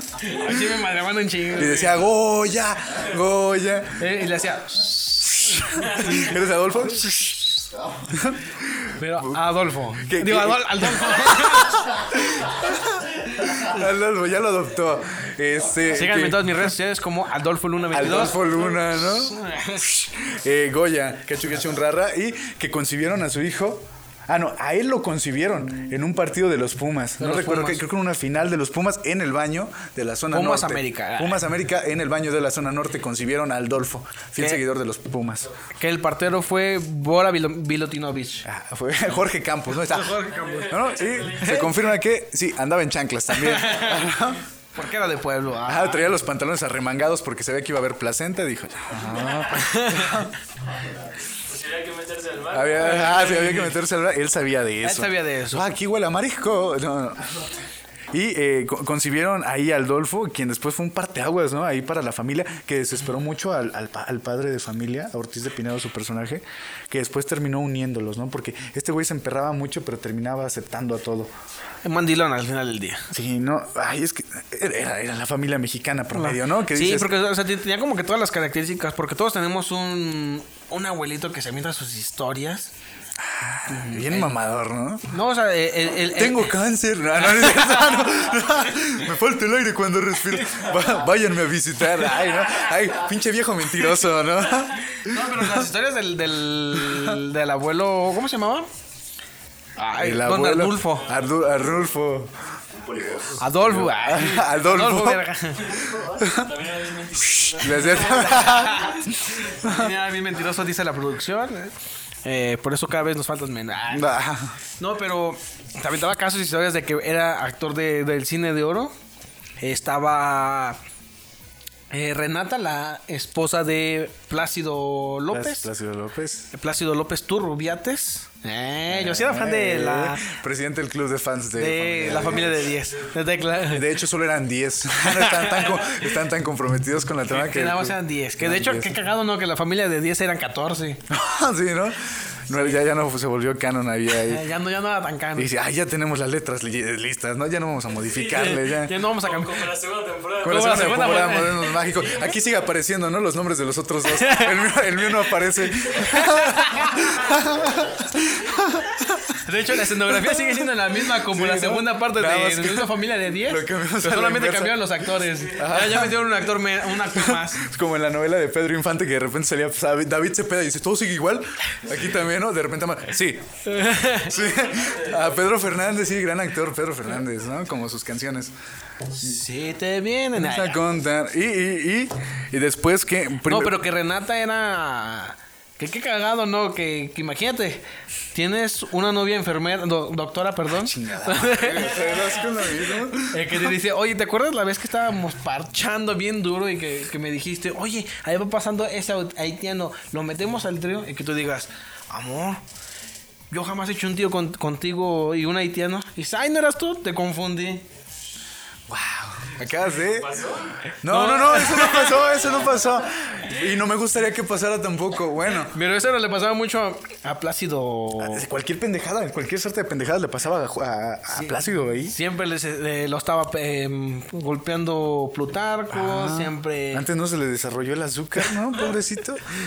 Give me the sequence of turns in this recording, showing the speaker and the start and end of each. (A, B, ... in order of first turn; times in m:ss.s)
0:00.2-0:02.0 A
0:01.6-0:04.0 B
0:04.0-0:06.2 A
0:05.3-0:09.4 B
0:09.0-0:11.8 A
0:10.0-0:16.7 B
0:15.9-0:19.9 A
0:17.9-0:35.5 B
0:27.2-0:27.8 A
0:30.3-0:31.4 A
0:35.8-0:38.4 A
0:38.4-0:44.4 B
0:39.8-0:41.7 A
0:40.3-0:41.8 C
0:43.3-0:44.1 A
0:44.7-0:46.2 A
0:45.6-0:50.3 B
0:49.5-0:50.3 A
0:51.3-0:53.3 C
0:52.5-0:57.4 B
0:52.8-0:53.7 A
0:54.8-0:55.7 A
0:58.1-1:11.3 B
1:11.8-1:13.1 A
1:13.1-1:17.1 B
1:16.1-1:22.7 A
1:23.2-1:25.2 B
1:23.7-1:24.3 A
1:25.1-1:26.5 A
1:26.1-1:35.6 B
1:27.2-1:28.2 A
1:35.0-1:38.7 A
1:36.8-1:37.1 B
1:39.8-1:41.1 A
1:40.0-1:42.3 B
1:41.1-1:41.7 C
1:42.8-1:45.2 B
1:43.3-1:45.8 A
1:45.7-1:48.8 C
1:45.9-1:46.6 B
1:47.1-1:48.9 B
1:48.1-1:54.2 A
1:49.6-1:49.9 B
1:53.9-1:54.6 B
1:54.8-1:58.9 A
1:59.6-2:00.8 A
2:01.9-2:05.7 A
2:05.3-2:06.5 B
2:06.5-2:10.3 A
2:08.9-2:12.8 B
2:11.6-2:13.9 A
2:13.7-2:19.0 B
2:15.0-2:15.9 A
2:17.3-2:21.0 A
2:21.1-2:24.4 B
2:24.1-2:25.5 A
2:25.3-2:29.0 B
2:28.1-2:32.5 C
2:28.3-2:29.7 A
2:30.4-2:39.2 B
2:30.4-2:31.7 A
2:34.2-2:34.5 A
2:36.0-2:37.0 A
2:39.3-2:47.6 A
2:40.1-2:46.3 B
2:47.0-2:53.6 B
2:53.6-2:54.4 A
2:54.2-2:58.5 B
2:54.3-2:55.4 C
2:59.1-3:00.8 A
3:00.4-3:03.8 B
3:03.4-3:12.1 A
3:10.8-3:13.8 B
3:13.3-3:22.6 A
3:23.5-3:27.8 A
3:28.9-3:30.4 B
3:30.0-3:30.8 C
3:30.9-3:32.2 A
3:31.0-3:35.7 B
3:35.6-3:38.4 A
3:38.2-3:42.1 B
3:42.0-3:47.1 A
3:45.9-3:49.4 B